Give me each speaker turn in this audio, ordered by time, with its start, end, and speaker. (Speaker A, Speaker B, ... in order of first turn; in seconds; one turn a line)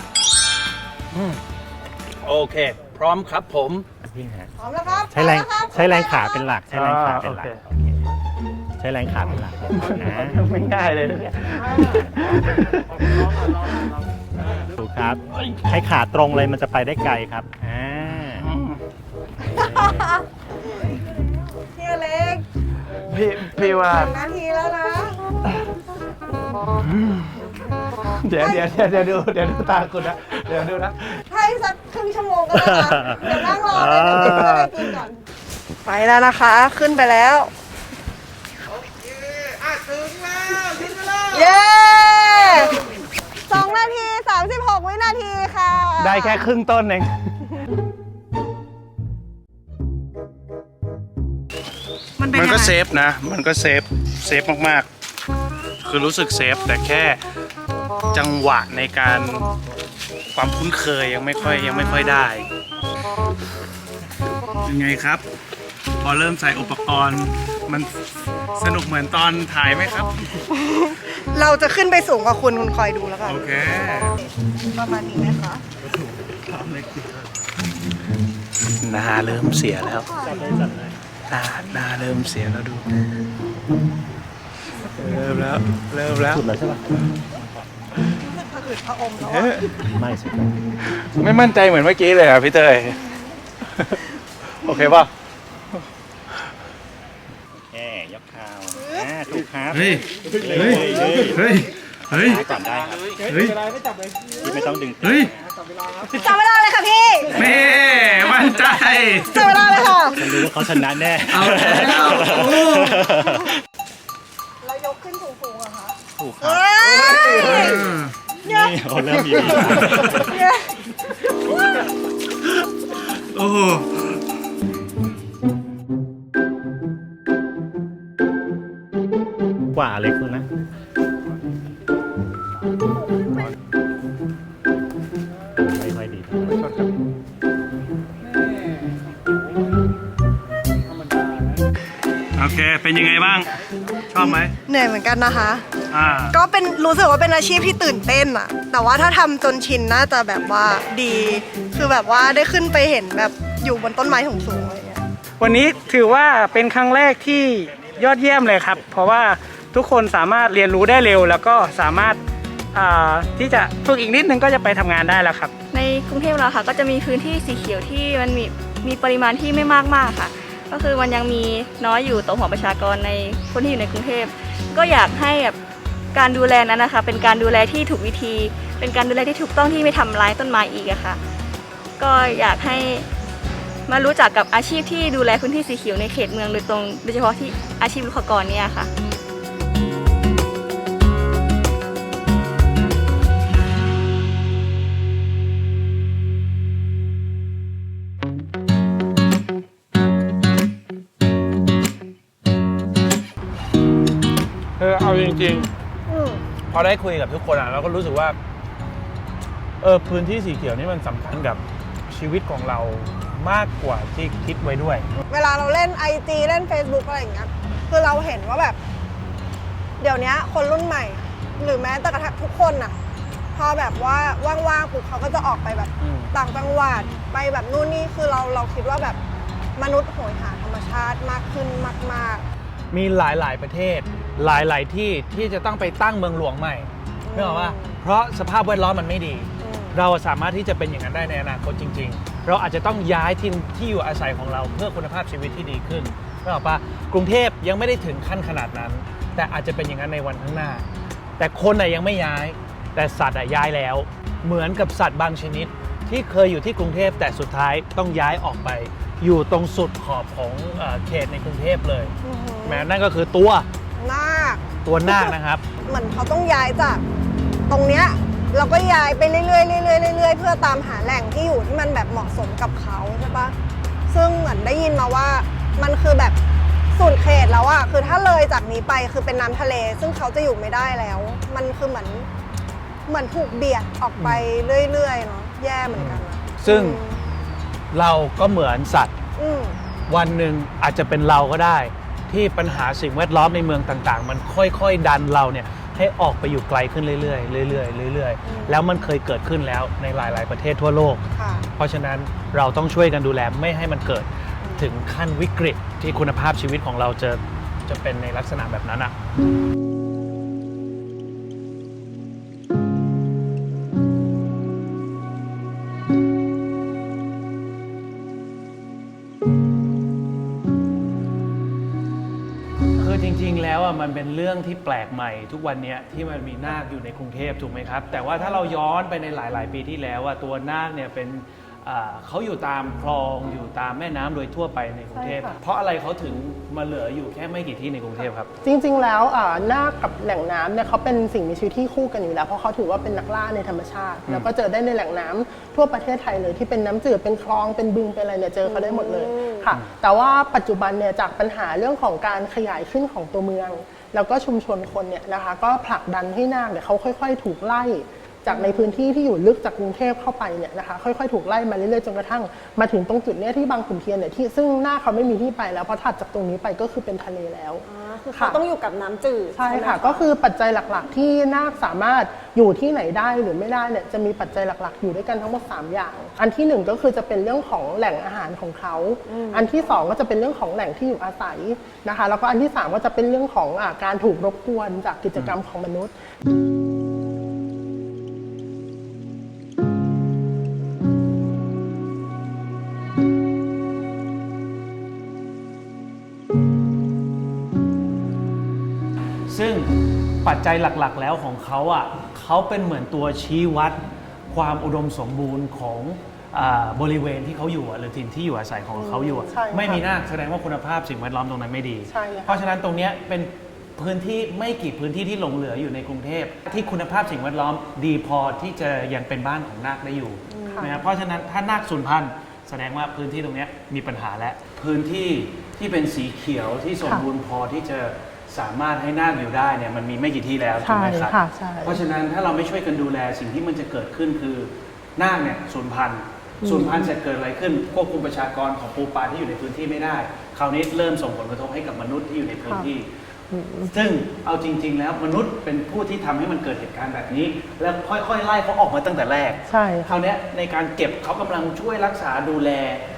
Speaker A: 1.1-1.4
Speaker A: 2.2-3.9
Speaker B: 4.0-4.5
Speaker C: 4.6-6.4
Speaker B: 5.1-8.0
Speaker A: 6.7-7.6
Speaker B: 8.8-10.4
Speaker A: 9.7-13.9
Speaker B: 14.5-18.5
Speaker A: 15.3-15.6
Speaker A: 18.4-18.8
Speaker C: 19.4-21.2
Speaker B: 19.5-20.0
Speaker C: 21.7-22.4
Speaker A: 23.1-24.1
Speaker C: 23.5-25.4
Speaker A: 26.8-27.4
Speaker A: 28.1-31.2
Speaker C: 28.4-28.7
Speaker C: 31.3-35.2
Speaker B: 32.5-34.7
Speaker C: 35.9-37.5
Speaker A: 39.9-41.1
Speaker C: 41.3-42.8
Speaker C: 43.5-46.4
Speaker A: 46.0-47.3
Speaker C: 52.2-52.8
Speaker A: 52.3-54.9
Speaker A: 55.8-57.2
Speaker A: 58.1-59.5
Speaker A: 60.3-62.5
Speaker C: 61.5-62.1
Speaker A: 64.6-65.2
Speaker A: 66.0-67.9
Speaker A: 68.5-70.4
Speaker C: 70.5-75.6
Speaker A: 73.2-74.2
Speaker A: 76.5-77.2
Speaker A: 78.8-80.1
Speaker C: 79.8-80.7
Speaker B: 80.2-81.0
Speaker A: 81.3-82.9
Speaker A: 84.8-86.4
Speaker B: 86.3-86.8
Speaker C: 88.2-89.9
Speaker A: 89.2-89.7
Speaker B: 89.9-90.5
Speaker A: 91.0-93.1
Speaker A: 94.6-95.1
Speaker B: 97.5-103.2
Speaker A: 99.7-102.4
Speaker A: 103.2-103.7
Speaker B: 104.3-105.5
Speaker A: 105.0-105.3
Speaker C: 106.0-107.7
Speaker A: 107.3-109.8
Speaker C: 108.8-110.3
Speaker B: 110.1-113.5
Speaker A: 111.3-112.9
Speaker C: 114.6-117.9
Speaker B: 116.2-117.7
Speaker A: 117.2-118.1
Speaker B: 118.4-120.4
Speaker C: 118.4-121.8
Speaker A: 119.7-120.3
Speaker A: 123.2-124.0
Speaker B: 129.7-130.4
Speaker B: 135.6-136.6
Speaker A: 142.3-143.5
Speaker A: 144.1-144.5
Speaker C: 144.2-145.6
Speaker A: 145.9-146.4
Speaker C: 146.3-155.0
Speaker D: 155.4-162.2
Speaker D: 162.7-165.5
Speaker E: 165.7-175.6
Speaker E: 176.1-181.2
Speaker E: 182.0-183.1
Speaker E: 183.9-188.9
Speaker A: 204.8-205.7
Speaker C: 206.1-206.4
Speaker A: 206.7-208.4
Speaker A: 209.8-215.1
Speaker C: 215.3-218.8
Speaker C: 220.0-222.9
Speaker C: 223.5-229.2
Speaker A: 226.0-226.3
Speaker C: 229.8-232.4
Speaker A: 232.9-250.8
Speaker C: 237.2-238.0
Speaker C: 239.6-240.0
Speaker A: 251.4-262.1
Speaker C: 262.2-262.9
Speaker A: 262.6-263.6
Speaker C: 264.0-267.0
Speaker A: 264.9-265.6
Speaker C: 267.7-273.6
Speaker C: 274.1-276.4
Speaker C: 276.9-282.3
Speaker C: 283.1-287.2
Speaker A: 284.2-284.4
Speaker A: 285.9-287.0
Speaker A: 287.9-289.1
Speaker C: 289.4-289.8
Speaker A: 290.1-301.2
Speaker C: 298.4-298.9
Speaker C: 301.4-301.7
Speaker A: 301.8-309.1
Speaker C: 304.6-304.9
Speaker A: 323.0-338.5
Speaker F: 328.4-328.7
Speaker F: 335.1-335.6
Speaker F: 338.6-368.6
Speaker C: 348.6-349.7
Speaker C: 358.5-359.0
Speaker C: 367.9-370.3
Speaker F: 369.6-386.1
Speaker C: 379.3-379.7
Speaker A: 399.5-399.9
Speaker A: 400.4-443.1
Speaker F: 409.0-410.0
Speaker F: 412.1-412.6
Speaker C: 420.5-420.9
Speaker F: 420.6-421.0
Speaker F: 430.8-432.0
Speaker F: 436.6-437.1
Speaker F: 442.6-442.9
Speaker F: 443.5-443.9
Speaker A: 443.9-453.0
Speaker F: 449.7-450.1